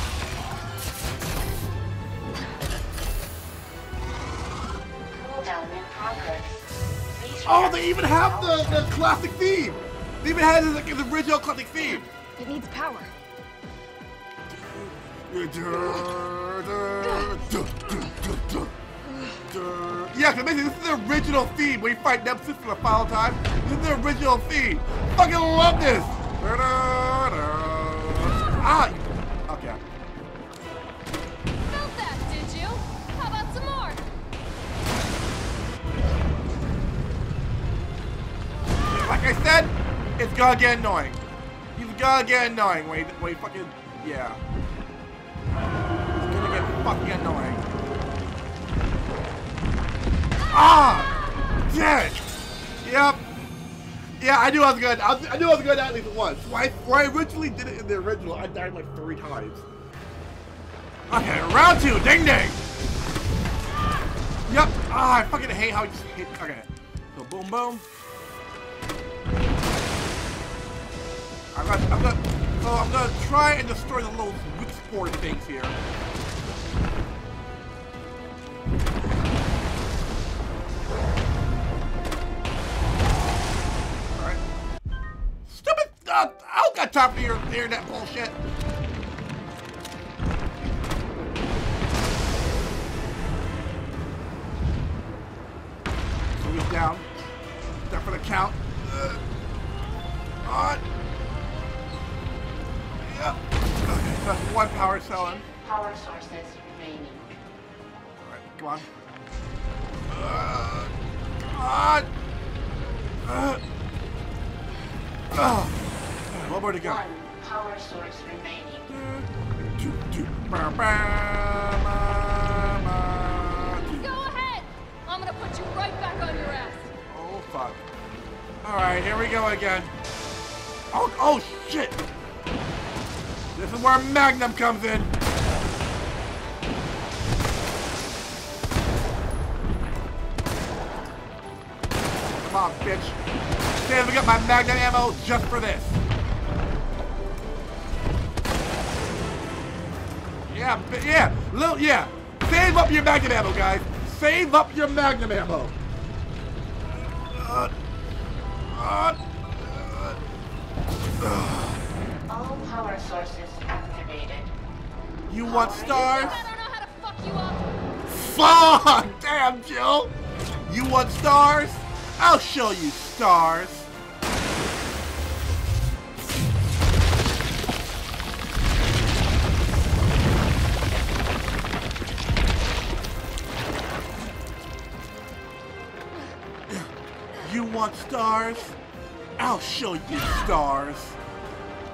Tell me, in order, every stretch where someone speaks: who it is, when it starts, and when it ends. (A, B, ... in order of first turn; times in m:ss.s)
0:05.1-0:06.6 A
0:07.1-0:08.9 A
0:07.4-0:12.1 B
0:12.2-0:13.1 C
0:14.5-0:18.7 B
0:15.7-0:16.1 C
0:17.0-0:17.3 C
0:19.5-0:29.8 B
0:31.7-0:34.0 C
0:38.8-0:41.2 B
0:41.8-0:44.4 B
0:46.1-0:47.6 B
0:50.5-0:52.3 B
0:52.8-0:53.2 B
0:54.2-0:59.7 B
1:01.1-1:02.6 B
1:04.5-1:07.8 B
1:11.5-1:15.8 B
1:24.1-1:24.4 B
1:25.4-1:28.4 B
1:36.4-1:37.1 B
1:37.9-1:39.2 B
1:40.4-1:40.8 B
1:43.0-1:45.4 B
1:45.1-1:47.4 A
1:48.2-1:48.9 B
1:50.1-1:52.1 B
1:53.2-1:53.6 B
1:55.3-1:57.0 B
1:56.8-1:58.9 A
1:58.9-2:04.1 B
2:03.9-2:06.9 C
2:07.1-2:07.8 B
2:08.6-2:09.9 B
2:10.9-2:12.0 B
2:13.5-2:15.1 B
2:22.4-2:23.2 B
2:23.8-2:26.0 B
2:30.5-2:35.8 B
2:37.0-2:37.7 B
2:38.7-2:40.2 B
2:41.2-2:41.8 B
2:42.3-2:44.5 A
2:45.3-2:46.5 B
2:45.4-2:46.4 A
2:45.8-2:47.7 C
2:48.1-2:50.1 B
2:50.6-2:53.9 B
3:07.4-3:08.8 B
3:09.4-3:11.2 B